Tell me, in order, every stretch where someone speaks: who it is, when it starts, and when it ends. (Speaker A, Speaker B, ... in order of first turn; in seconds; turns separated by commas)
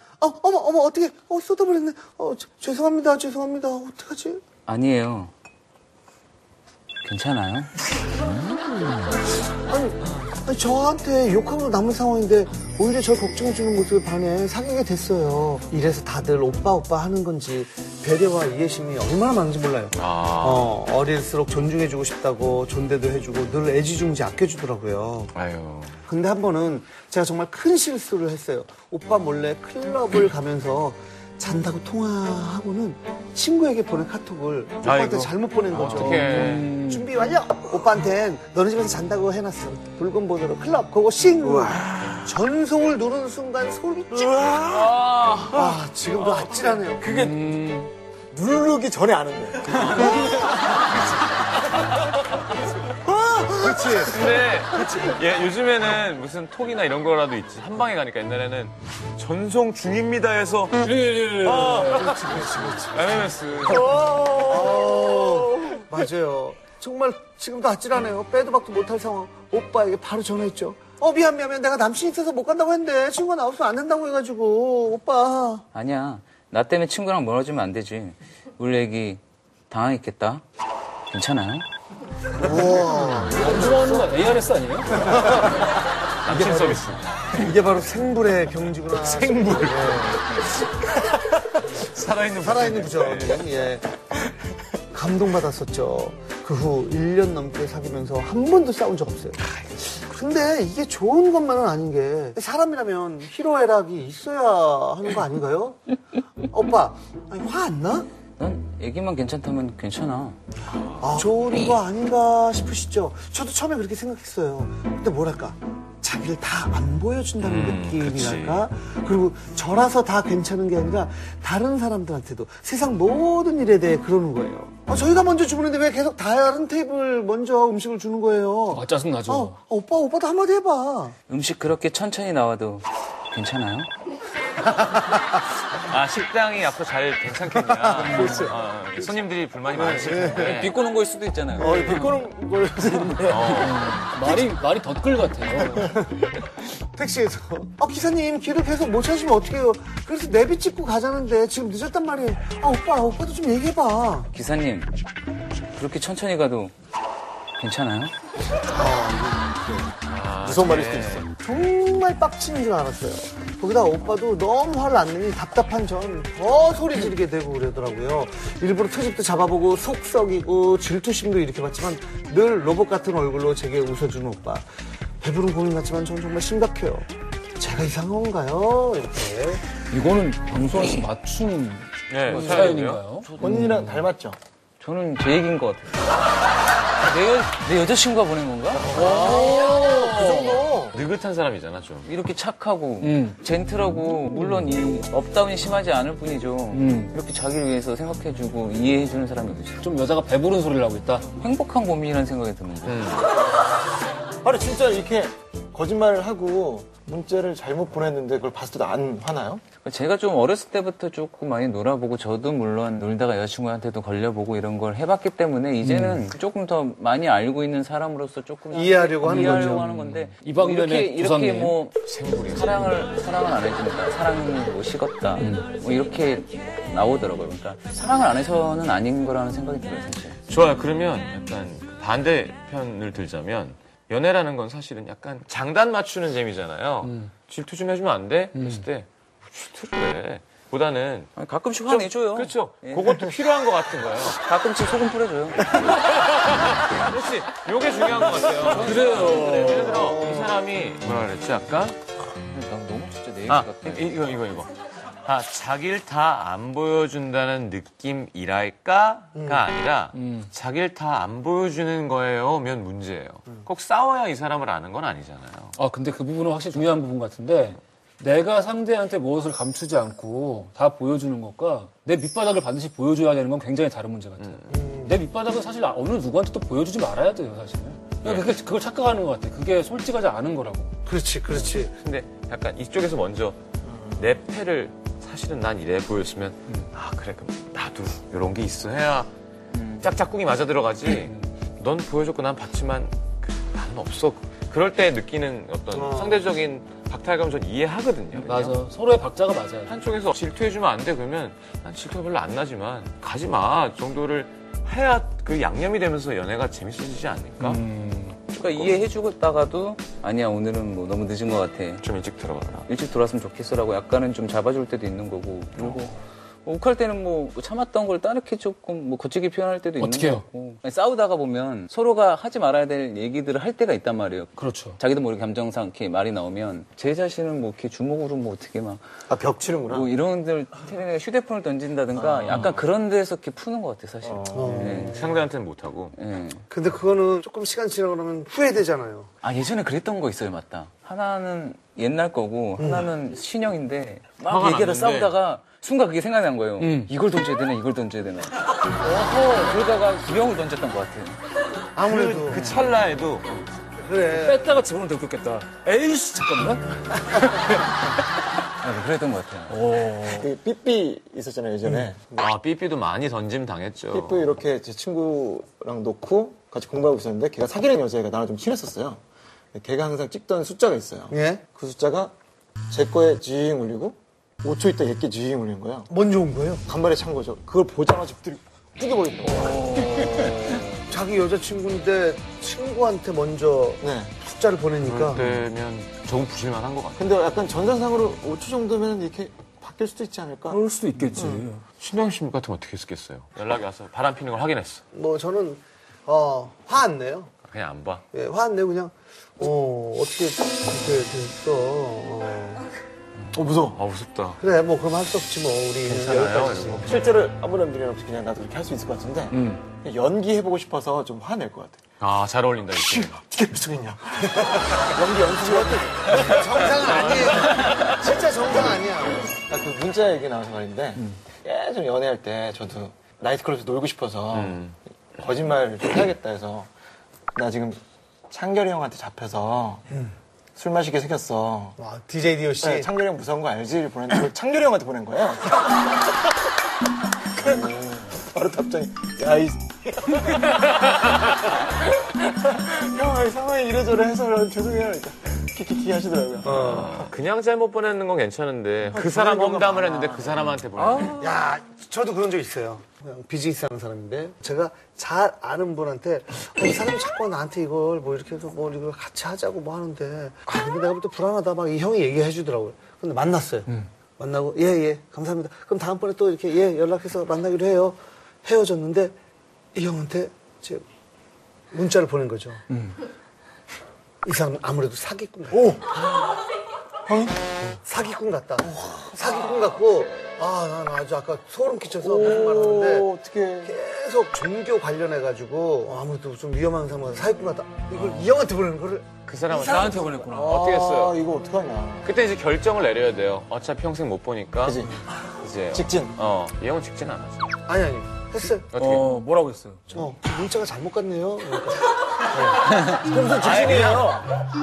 Speaker A: 0.2-4.4, Speaker B: 4.7-5.3, Speaker B: 7.0-7.7, Speaker A: 9.7-25.3, Speaker C: 19.9-20.7, Speaker C: 25.3-26.0, Speaker A: 26.1-44.5, Speaker C: 34.8-36.7, Speaker D: 35.7-37.1, Speaker E: 41.5-42.2, Speaker E: 44.2-45.1, Speaker C: 44.7-45.5, Speaker A: 45.5-47.1, Speaker C: 46.2-46.7, Speaker E: 47.0-47.3, Speaker D: 47.1-47.9, Speaker E: 48.3-51.2, Speaker A: 50.0-50.4, Speaker E: 52.8-54.4, Speaker C: 53.9-62.3, Speaker D: 60.8-62.8, Speaker A: 61.5-63.4, Speaker C: 62.9-64.3, Speaker E: 63.9-64.3, Speaker A: 64.2-75.7, Speaker B: 75.7-80.4, Speaker B: 81.1-81.7, Speaker A: 82.4-84.2, Speaker D: 82.5-85.4, Speaker A: 84.9-85.6, Speaker C: 86.2-87.5, Speaker A: 86.3-90.3, Speaker C: 89.0-93.5, Speaker A: 92.4-93.9, Speaker A: 94.9-105.8, Speaker C: 99.4-99.8, Speaker A: 106.5-108.1, Speaker B: 108.4-110.4, Speaker A: 111.0-131.1, Speaker C: 117.4-118.7, Speaker D: 128.7-129.6, Speaker B: 131.3-133.9, Speaker C: 135.3-140.7, Speaker A: 137.7-138.5, Speaker B: 137.9-138.3, Speaker A: 139.7-140.7, Speaker B: 140.3-141.9, Speaker A: 141.6-142.3, Speaker E: 141.6-143.5, Speaker C: 143.3-143.9, Speaker D: 143.5-146.0, Speaker A: 146.9-154.3, Speaker B: 154.3-154.9, Speaker B: 155.7-156.7, Speaker B: 157.6-158.1, Speaker A: 158.7-159.9, Speaker C: 160.1-161.3, Speaker E: 160.4-161.3, Speaker A: 161.4-174.7, Speaker A: 175.2-179.6, Speaker D: 179.9-183.3, Speaker C: 182.1-183.0, Speaker B: 183.1-184.1, Speaker E: 183.4-184.4, Speaker B: 184.8-186.1, Speaker B: 187.0-189.5, Speaker A: 188.8-191.0, Speaker D: 188.9-190.7, Speaker C: 190.9-192.1, Speaker B: 192.0-199.8, Speaker D: 193.0-193.4, Speaker D: 196.7-197.1, Speaker D: 199.8-201.3, Speaker B: 201.3-203.1, Speaker C: 202.9-203.3, Speaker E: 204.4-209.6, Speaker B: 209.8-230.4, Speaker D: 215.8-216.2, Speaker A: 218.7-219.8, Speaker D: 219.2-221.8, Speaker C: 222.0-223.0, Speaker D: 225.4-225.7, Speaker C: 230.5-241.3, Speaker D: 237.0-237.3, Speaker D: 238.6-238.8, Speaker B: 241.3-243.2, Speaker C: 241.8-244.4, Speaker B: 244.3-245.9, Speaker C: 245.6-252.0, Speaker B: 248.7-249.1, Speaker D: 248.7-250.1, Speaker A: 249.5-250.6, Speaker B: 252.4-254.2, Speaker C: 253.5-254.7, Speaker C: 255.2-265.7, Speaker A: 259.3-259.6, Speaker D: 260.1-260.5, Speaker D: 265.8-280.9, Speaker C: 274.4-274.7, Speaker A: 274.7-275.1, Speaker C: 278.2-278.5, Speaker A: 281.1-281.9, Speaker C: 281.9-283.6, Speaker E: 283.8-284.2, Speaker C: 284.1-289.3, Speaker B: 289.7-290.1, Speaker C: 290.0-298.8, Speaker A: 295.9-296.5, Speaker D: 298.3-300.0, Speaker C: 299.9-307.8, Speaker D: 307.6-308.4, Speaker B: 308.5-312.1, Speaker C: 308.5-309.1, Speaker C: 312.0-312.9, Speaker B: 312.8-329.0, Speaker D: 320.0-320.5, Speaker D: 324.6-325.0, Speaker E: 329.3-330.1, Speaker B: 329.9-335.2, Speaker E: 332.1-332.8, Speaker C: 332.4-332.8, Speaker E: 334.2-335.1, Speaker A: 334.5-335.4, Speaker C: 335.1-336.1, Speaker B: 336.1-336.6, Speaker A: 336.7-339.3, Speaker B: 339.4-351.4, Speaker A: 342.8-343.1, Speaker C: 344.4-345.4, Speaker D: 346.8-347.1, Speaker A: 351.9-352.7, Speaker C: 352.1-353.6, Speaker A: 354.0-354.8, Speaker D: 354.3-358.1, Speaker B: 358.8-359.8, Speaker D: 359.7-360.5, Speaker E: 360.2-362.5, Speaker C: 362.4-364.5, Speaker E: 364.1-369.2, Speaker E: 369.7-372.3, Speaker A: 371.3-371.6, Speaker E: 372.9-376.1, Speaker A: 376.1-376.8, Speaker E: 376.9-380.4, Speaker D: 379.7-380.8, Speaker A: 381.1-385.4, Speaker E: 384.0-384.3, Speaker C: 385.0-387.3, Speaker E: 387.2-390.8, Speaker D: 390.7-391.8, Speaker E: 391.3-391.6, Speaker C: 392.0-395.0, Speaker A: 395.1-397.5, Speaker C: 397.6-398.2, Speaker A: 398.3-402.8, Speaker E: 403.5-404.0, Speaker C: 403.9-404.6, Speaker A: 404.6-407.1, Speaker C: 406.0-407.3, Speaker E: 407.0-412.0, Speaker D: 409.5-409.8, Speaker C: 412.2-413.4, Speaker E: 413.0-416.9, Speaker A: 415.6-419.5, Speaker E: 419.5-424.8, Speaker C: 424.5-424.9, Speaker E: 425.4-426.9, Speaker E: 427.5-430.1, Speaker E: 430.8-432.0, Speaker A: 432.0-433.1, Speaker E: 432.8-435.9, Speaker E: 437.6-441.6, Speaker E: 442.2-447.3, Speaker A: 446.6-447.1, Speaker C: 446.8-451.4, Speaker E: 449.1-450.3, Speaker A: 451.4-469.3, Speaker A: 469.9-471.0, Speaker A: 471.9-472.8, Speaker A: 474.4-476.1, Speaker E: 477.2-477.6, Speaker A: 478.0-483.3, Speaker E: 478.8-480.3, Speaker E: 482.2-483.9, Speaker A: 483.8-490.2, Speaker C: 489.4-491.4, Speaker D: 489.7-490.7, Speaker E: 490.5-492.3, Speaker C: 492.2-495.0, Speaker E: 494.8-495.3, Speaker C: 495.6-497.8, Speaker E: 495.9-496.4, Speaker A: 497.9-498.9, Speaker C: 498.9-499.2, Speaker D: 498.9-500.1, Speaker A: 500.1-503.0, Speaker E: 503.0-504.5, Speaker C: 503.6-504.4, Speaker A: 503.8-504.2